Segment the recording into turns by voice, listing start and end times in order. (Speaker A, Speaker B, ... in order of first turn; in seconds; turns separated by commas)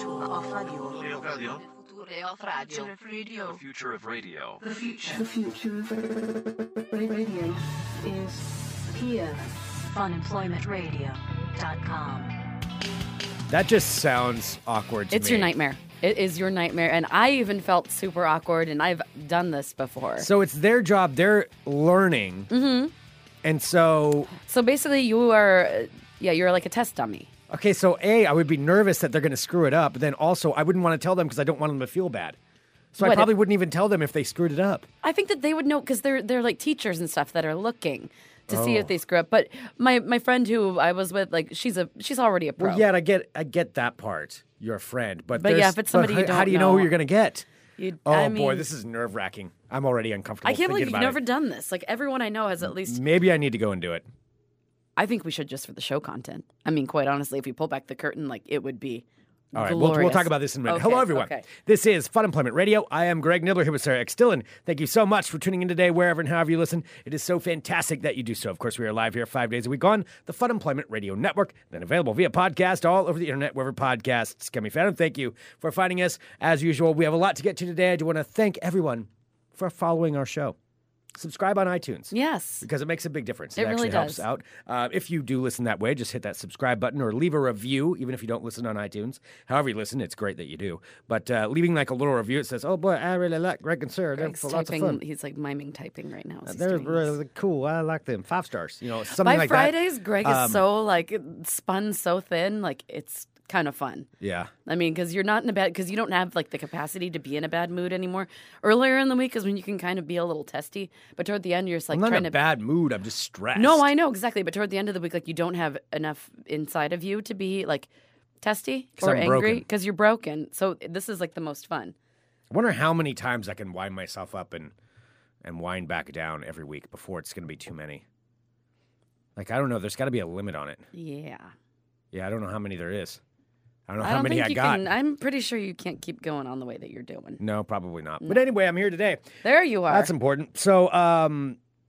Speaker A: 0.3-0.7, Speaker B: 0.8-1.6, Speaker C: 1.9-3.2, Speaker B: 3.4-4.6, Speaker A: 5.0-5.8, Speaker A: 6.9-7.6, Speaker C: 8.8-12.3, Speaker D: 13.5-15.5, Speaker C: 15.1-20.3, Speaker D: 20.2-22.5, Speaker C: 22.5-22.9, Speaker D: 23.4-24.3, Speaker C: 24.4-27.3, Speaker D: 27.5-32.4, Speaker D: 32.9-34.9, Speaker C: 33.0-33.3, Speaker C: 35.0-42.8, Speaker D: 38.5-38.9, Speaker D: 42.6-47.5, Speaker C: 45.3-47.0, Speaker C: 47.8-48.7, Speaker D: 48.0-51.2, Speaker C: 50.4-53.0, Speaker D: 52.6-54.0, Speaker C: 55.0-61.5, Speaker D: 59.5-80.5, Speaker D: 81.1-95.0, Speaker C: 82.1-82.7, Speaker C: 83.5-84.2, Speaker C: 94.2-97.2, Speaker D: 96.5-100.6, Speaker C: 99.1-104.1, Speaker D: 104.2-104.5, Speaker C: 104.7-112.4, Speaker D: 111.9-113.9, Speaker C: 113.5-117.9, Speaker C: 118.4-121.9, Speaker D: 119.0-119.6, Speaker D: 122.5-124.7, Speaker D: 125.4-128.0, Speaker D: 129.3-130.8, Speaker C: 130.9-131.5, Speaker D: 132.1-133.2, Speaker D: 133.9-134.9, Speaker C: 134.0-137.4, Speaker D: 137.4-139.3, Speaker C: 139.4-140.1, Speaker D: 139.9-141.6